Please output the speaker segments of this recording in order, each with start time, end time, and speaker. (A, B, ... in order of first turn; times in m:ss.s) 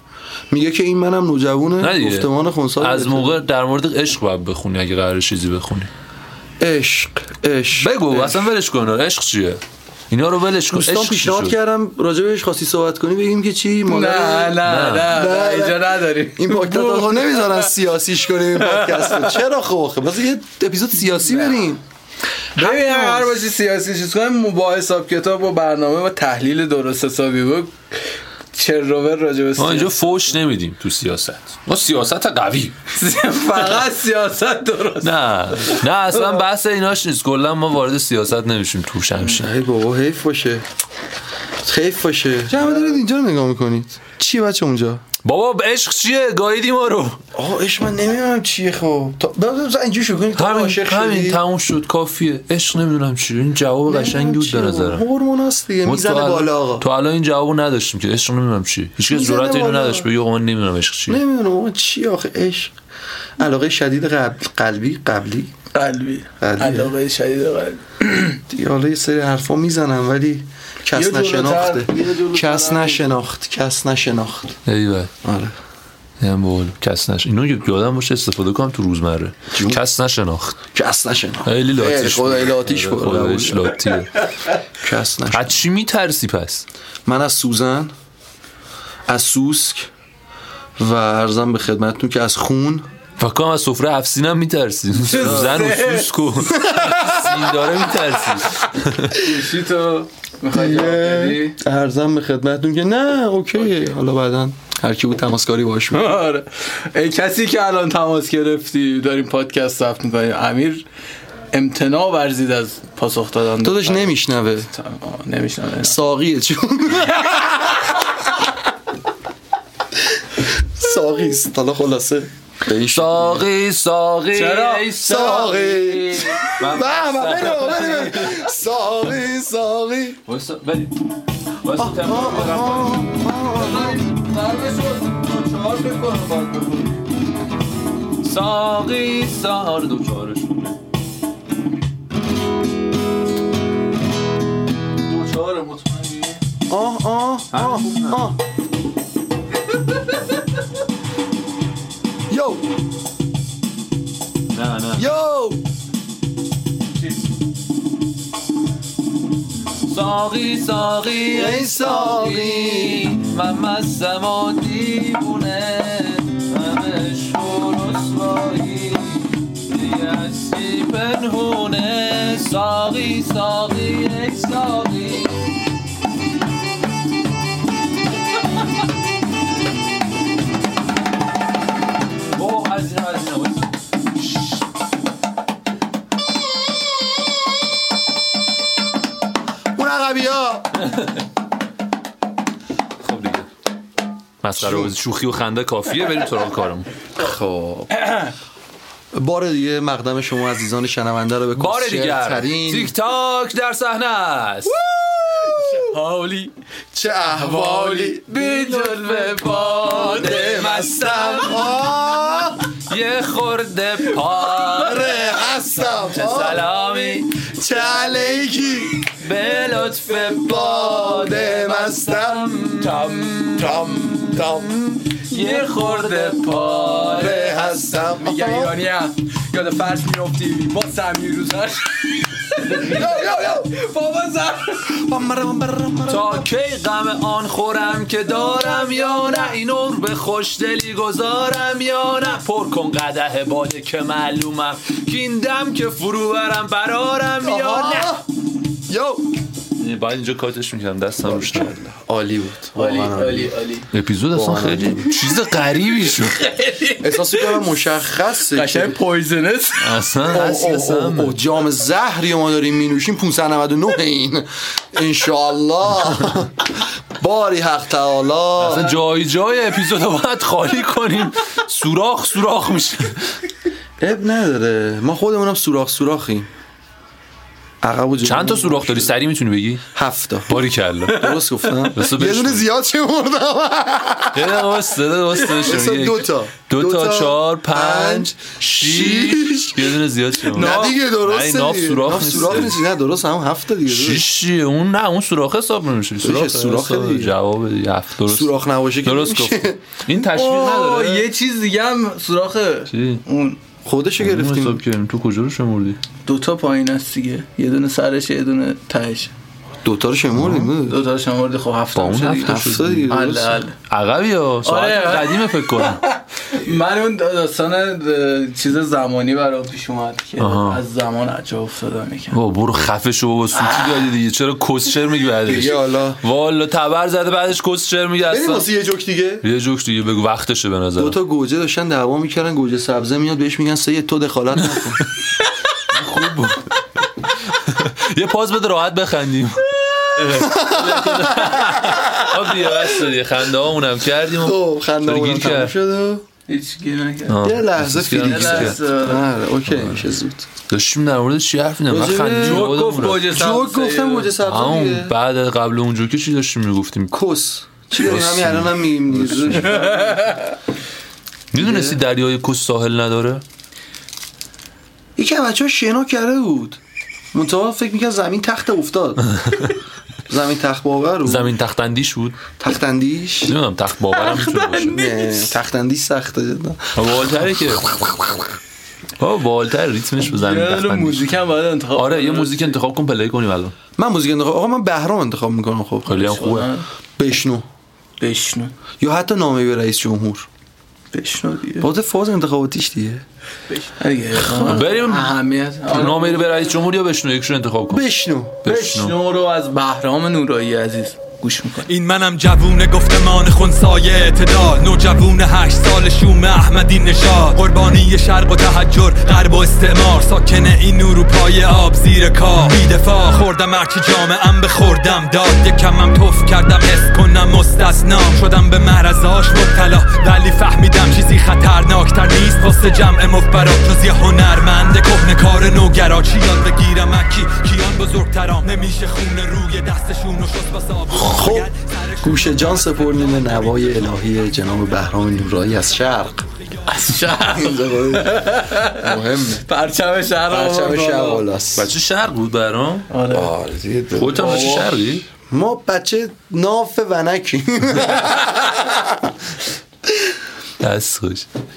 0:00.5-0:03.4 A
0:01.8-0:05.9 B
0:06.6-0:08.3 A
0:07.8-0:11.6 B
0:10.7-0:21.8 A
0:13.9-0:17.7 C
0:14.6-0:15.1 B
0:18.6-0:19.4 C
0:21.2-0:21.7 C
0:22.6-0:23.4 A
0:22.6-0:27.7 C
0:28.5-0:30.3 C
0:29.6-0:32.8 B
0:32.9-0:36.4 C
0:35.0-0:39.5 B
0:39.3-0:40.6 A
0:41.6-0:45.0 A
0:45.2-0:47.2 B
0:47.3-0:51.4 A
0:50.4-0:55.1 B
0:53.9-0:56.9 A
0:55.8-1:01.2 B
0:59.1-1:00.1 A
1:01.1-1:02.7 A
1:03.4-1:05.5 A
1:05.7-1:08.4 C
1:06.4-1:07.0 A
1:08.5-1:14.6 A
1:10.9-1:13.0 C
1:14.6-1:15.1 B
1:15.2-1:15.5 A
1:16.2-1:20.6 B
1:19.5-1:19.8 A
1:20.7-1:23.8 A
1:21.4-1:24.1 B
1:24.8-1:25.6 A
1:25.3-1:26.6 B
1:27.1-1:27.9 A
1:29.1-1:29.9 A
1:30.8-1:32.9 A
1:33.2-1:39.2 B
1:35.0-1:36.4 C
1:35.1-1:35.6 A
1:36.5-1:37.5 A
1:39.1-1:41.6 C
1:40.5-1:46.1 A
1:45.9-1:50.8 C
1:51.5-1:54.2 C
1:53.6-1:54.7 A
1:54.7-1:56.0 C
1:55.8-1:58.1 A
2:00.4-2:03.5 A
2:02.9-2:05.8 B
2:04.3-2:06.4 C
2:05.0-2:10.2 A
2:06.4-2:08.5 B
2:10.2-2:11.0 B
2:11.6-2:13.0 B
2:11.8-2:14.0 A
2:13.5-2:17.0 C
2:18.2-2:20.8 B
2:25.0-2:26.4 C
2:26.7-2:28.4 A
2:27.5-2:28.2 B
2:32.3-2:32.6 A
2:34.5-2:35.1 B
2:35.0-2:35.6 A
2:39.8-2:55.5 B
2:41.2-2:43.2 A
3:02.3-3:04.6 B
3:09.8-3:10.8 A
3:13.0-3:13.5 B
3:14.4-3:16.9 B
3:14.6-3:14.9 A
3:17.2-3:17.9 A
3:17.9-3:18.3 C
3:19.1-3:22.9 A
3:21.5-3:24.8 B
3:24.7-3:26.0 A
3:25.4-3:26.5 C
3:26.9-3:28.4 A
3:27.3-3:30.6 C
3:28.3-3:31.8 B
3:30.0-3:32.6 A
3:32.9-3:35.1 B
3:34.6-3:36.7 A
3:36.1-3:37.5 B
3:37.4-3:39.0 A
3:39.2-3:47.4 B
3:40.2-3:44.8 A
3:45.3-3:54.9 C
3:47.1-3:48.8 A
3:52.6-3:53.1 B
3:52.7-3:53.7 A
3:54.9-3:56.5 A
3:56.1-4:08.1 B
3:58.2-3:59.6 C
4:07.4-4:08.2 A
4:08.9-4:09.3 A
4:09.8-4:11.8 B
4:11.2-4:13.5 A
4:12.8-4:13.9 C
4:13.9-4:16.5 B
4:14.3-4:15.1 A
4:16.4-4:17.7 C
4:17.0-4:19.0 A
4:18.5-4:19.9 C
4:19.8-4:21.4 B
4:20.3-4:28.9 A
4:28.6-4:33.4 B
4:34.0-4:36.5 A
4:37.8-4:39.1 A
4:38.2-4:39.8 B
4:39.9-4:44.8 A
4:40.5-4:41.3 B
4:41.1-4:41.9 C
4:41.9-4:42.6 B
4:44.3-4:52.8 B
4:45.4-4:54.2 A
4:50.6-4:51.0 C
4:53.9-5:01.2 B
4:56.2-4:57.4 A
4:58.2-4:59.8 A
5:00.2-5:03.6 C
5:02.9-5:03.2 B
5:03.8-5:04.8 A
5:04.2-5:06.0 B
5:06.2-5:09.3 C
5:09.8-5:11.0 A
5:10.4-5:10.7 B
5:10.7-5:13.8 C
5:12.0-5:13.1 B
5:12.4-5:13.6 A
5:13.9-5:16.0 B
5:14.6-5:22.4 C
5:20.4-5:20.8 B
5:22.3-5:28.7 B
5:23.5-5:24.1 C
5:25.4-5:26.2 A
5:28.3-5:29.4 A
5:29.4-5:31.2 B
5:31.0-5:35.0 A
5:35.9-5:36.8 B
5:37.3-5:45.7 B
5:40.2-5:42.7 A
5:44.3-5:46.2 A
5:46.5-5:47.4 C
5:47.3-5:48.8 B
5:47.4-5:50.5 A
5:48.2-5:49.3 C
5:49.7-5:50.0 B
5:50.7-5:53.3 B
5:51.9-5:55.1 A
5:52.4-5:54.4 C
5:54.4-5:57.1 B
5:57.1-6:00.3 A
5:57.9-5:59.8 B
5:59.7-6:00.5 C
6:01.5-6:03.4 B
6:01.5-6:02.0 A
6:05.2-6:06.8 A
6:07.3-6:09.6 A
6:10.3-6:11.5 A
6:11.2-6:12.4 B
6:12.6-6:13.5 A
6:13.5-6:15.1 B
6:14.1-6:15.5 C
6:14.9-6:17.1 A
6:17.0-6:17.9 B
6:19.2-6:21.3 B
6:20.2-6:22.8 C
6:22.0-6:23.8 B
6:24.0-6:26.2 A
6:26.1-6:26.7 B
6:26.1-6:26.9 C
6:27.2-6:27.6 A
6:28.2-6:28.7 C
6:29.0-6:30.5 A
6:31.1-6:31.9 C
6:31.8-6:33.2 A
6:33.7-6:36.7 C
6:34.4-6:38.1 B
6:37.9-6:38.6 A
6:38.6-6:39.1 B
6:38.6-6:41.9 C
6:41.9-7:14.2 D
7:11.1-7:16.4 A
7:16.9-7:21.4 C
7:17.5-7:19.6 A
7:20.5-7:21.9 A
7:21.8-7:23.1 B
7:23.1-7:23.5 C
7:23.3-7:24.8 A
7:24.1-7:25.2 B
7:24.3-7:25.0 C
7:25.5-7:29.3 A
7:30.8-7:31.5 B